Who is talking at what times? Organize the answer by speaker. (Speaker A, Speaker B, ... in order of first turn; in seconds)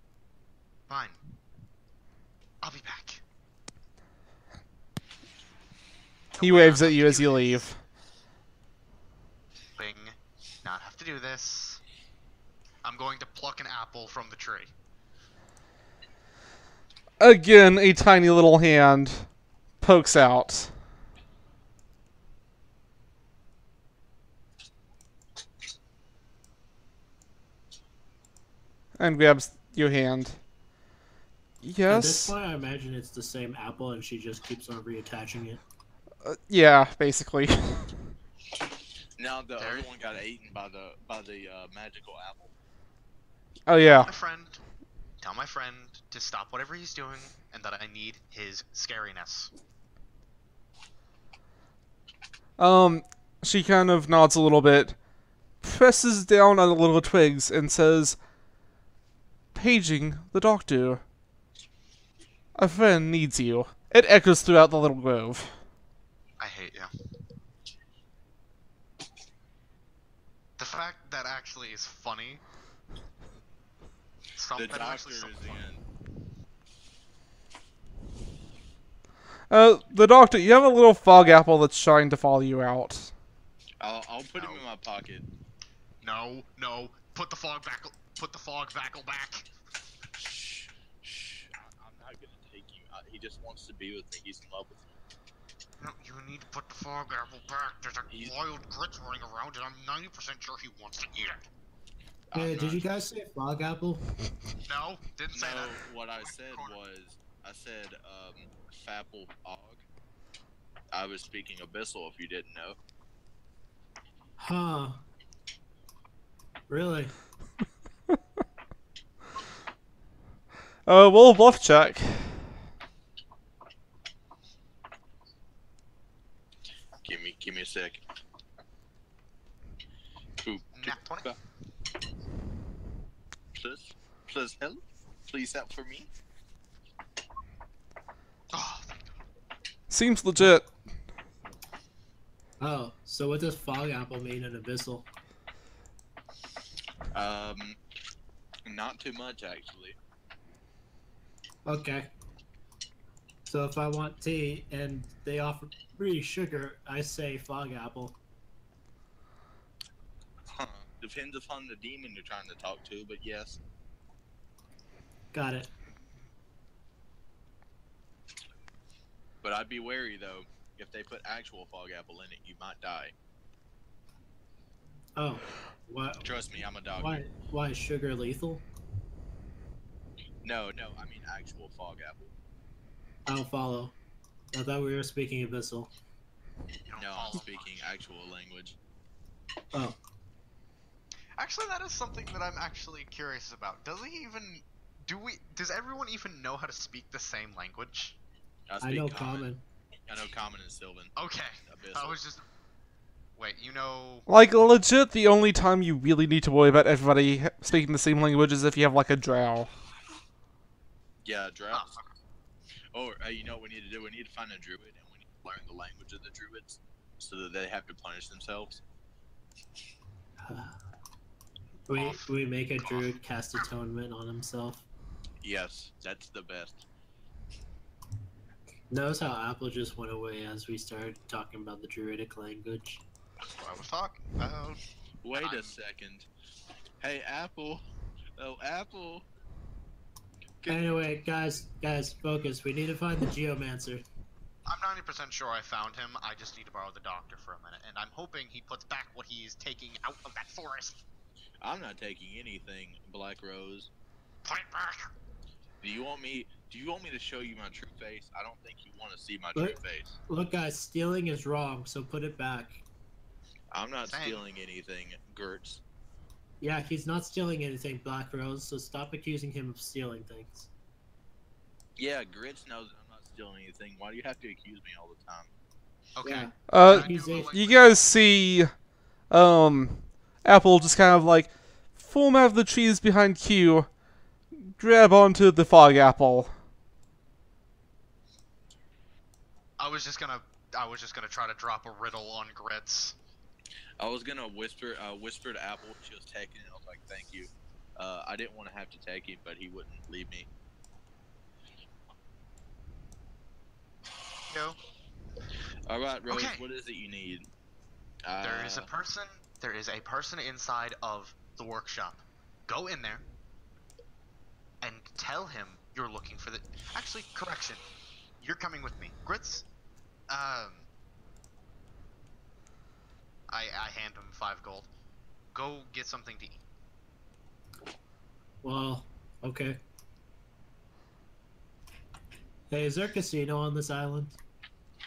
Speaker A: 0.9-1.2, 2.6-3.2, 6.3-7.6, 9.8-11.8, 12.8-14.7, 39.6-39.9, 44.0-44.6, 45.2-49.5, 66.4-66.9, 70.6-72.4, 74.3-75.6, 86.0-89.5, 95.8-101.4, 104.6-106.7, 130.8-131.3, 138.5-139.1, 186.9-187.9, 191.4-198.2, 201.2-202.4, 203.4-204.3, 211.7-212.1, 221.9-223.1, 233.5-234.8, 235.4-235.7, 244.7-251.0, 254.4-255.1, 264.1-264.4, 276.1-278.0, 289.8-293.1, 304.5-304.8, 306.3-306.6, 308.4-313.2, 314.8-317.8, 318.4-319.6, 320.3-320.9, 323.5-324.9, 325.5-326.6
Speaker B: 6.4-7.8, 17.2-19.3, 19.8-20.7, 29.0-30.4, 31.6-32.4, 36.2-37.9, 43.7-44.1, 52.6-55.0, 55.6-58.2, 59.5-61.0, 62.5-65.6, 79.5-83.1, 120.8-122.5, 139.9-140.7, 204.3-209.7, 276.7-278.7, 279.3-283.9, 284.6-286.5
Speaker C: 31.9-35.6, 102.3-104.1, 114.4-115.0, 116.7-117.1, 142.6-145.1, 151.6-152.1, 153.5-158.2, 165.3-165.7, 175.1-176.2, 176.9-178.6, 183.2-183.9, 184.5-185.9, 198.8-199.6, 220.4-220.8, 221.9-224.8, 228.9-233.0, 240.7-244.0, 259.5-262.8, 266.6-270.7, 276.2-277.5, 328.6-329.8, 332.7-334.4
Speaker D: 39.2-42.5, 74.5-75.8, 83.8-85.2, 90.2-94.9, 102.3-102.9, 105.3-109.8, 110.9-112.8, 127.0-128.0, 130.4-131.4, 133.5-136.1, 147.1-147.8, 148.7-149.9, 160.4-163.6, 169.4-173.1, 176.2-177.3, 180.4-182.3, 187.0-188.8, 198.7-199.5, 200.1-201.1, 201.6-202.2, 211.2-211.9, 212.9-218.8, 225.4-226.8, 235.2-236.2, 237.0-237.8, 238.4-239.2, 240.6-240.9, 251.6-253.9, 255.8-260.1, 263.7-265.8, 272.0-275.5, 294.0-300.5, 305.9-307.5, 308.2-308.9